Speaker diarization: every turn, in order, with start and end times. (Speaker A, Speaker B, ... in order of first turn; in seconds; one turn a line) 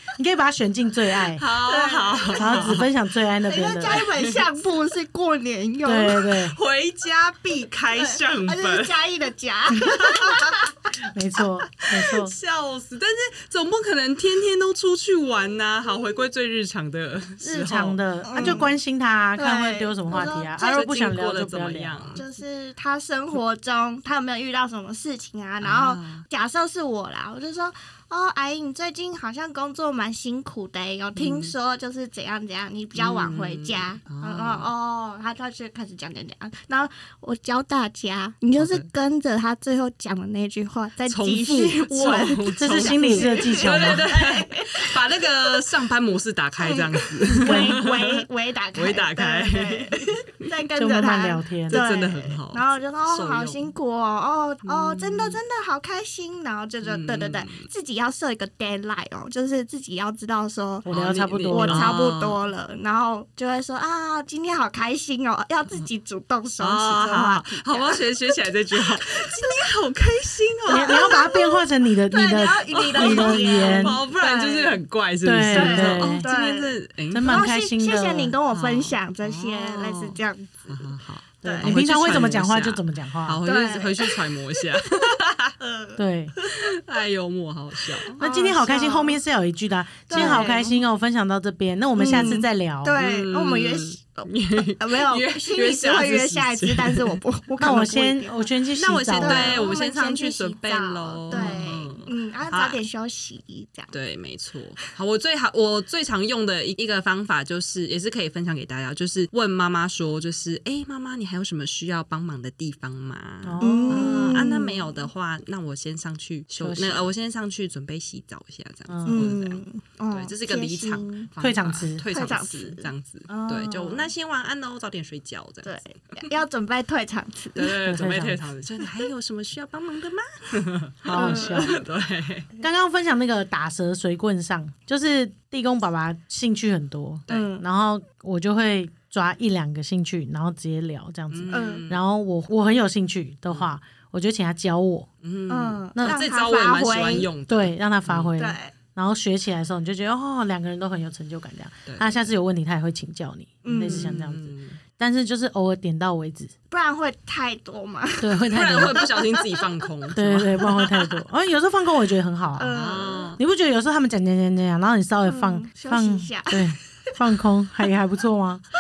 Speaker A: 0.2-1.4
Speaker B: 1.4-2.9
Speaker C: 1.6-2.8
Speaker A: 2.4-4.0
Speaker C: 3.5-6.4
Speaker B: 3.9-4.4
Speaker A: 5.8-6.6
Speaker B: 6.5-8.9
Speaker C: 7.9-10.7
Speaker B: 9.8-10.6
Speaker A: 11.1-12.3
Speaker B: 11.8-18.6
Speaker A: 17.4-22.2
Speaker C: 18.3-18.7
Speaker C: 19.4-20.9
Speaker B: 20.7-22.2
Speaker C: 22.2-45.5
Speaker B: 25.6-26.3
Speaker B: 31.2-31.5
Speaker B: 33.0-34.7
Speaker B: 38.6-38.9
Speaker B: 41.1-50.5
Speaker A: 42.6-44.0
Speaker C: 46.6-60.9
Speaker A: 47.3-47.8
Speaker A: 50.8-51.8
Speaker B: 51.7-53.7
Speaker B: 54.7-55.4
Speaker B: 56.8-57.7
Speaker A: 60.9-62.0
Speaker B: 60.9-62.4
Speaker C: 61.5-69.7
Speaker B: 66.6-71.3
Speaker C: 70.7-74.8
Speaker A: 70.7-74.0
Speaker B: 72.7-77.4
Speaker A: 75.2-76.3
Speaker C: 75.5-80.9
Speaker A: 77.1-78.3
Speaker B: 78.5-85.6
Speaker C: 81.4-81.8
Speaker A: 81.4-83.4
Speaker C: 83.5-85.0
Speaker C: 85.6-86.6
Speaker A: 86.0-86.3
Speaker B: 86.5-88.2
Speaker C: 88.1-89.2
Speaker A: 88.2-93.0
Speaker C: 90.1-90.8
Speaker B: 90.1-90.5
Speaker C: 92.0-98.5
Speaker B: 92.1-92.4
Speaker B: 93.0-97.2
Speaker A: 97.6-99.7
Speaker B: 98.8-102.8
Speaker C: 99.1-103.9
Speaker A: 101.3-101.7
Speaker B: 103.9-126.2
Speaker A: 113.4-114.5
Speaker C: 113.6-114.8
Speaker A: 116.6-117.1
Speaker A: 118.9-119.3
Speaker C: 119.1-121.3
Speaker A: 121.4-122.0
Speaker C: 122.1-124.1
Speaker C: 125.6-127.8
Speaker B: 127.5-132.5
Speaker A: 127.9-128.4
Speaker A: 131.0-131.8
Speaker C: 131.1-131.8
Speaker A: 132.6-145.1
Speaker B: 137.3-137.6
Speaker C: 137.3-137.6
Speaker B: 141.3-142.0
Speaker C: 141.5-141.9
Speaker B: 143.5-143.7
Speaker B: 145.2-148.3
Speaker C: 145.5-147.3
Speaker A: 145.9-146.3
Speaker A: 147.5-156.5
Speaker C: 148.4-148.7
Speaker B: 151.9-152.3
Speaker C: 153.6-154.1
Speaker B: 153.8-154.8
Speaker C: 156.7-159.7
Speaker A: 158.2-159.1
Speaker B: 158.5-160.9
Speaker A: 160.2-162.8
Speaker C: 162.6-163.3
Speaker B: 162.7-163.4
Speaker A: 163.4-168.6
Speaker C: 165.3-167.2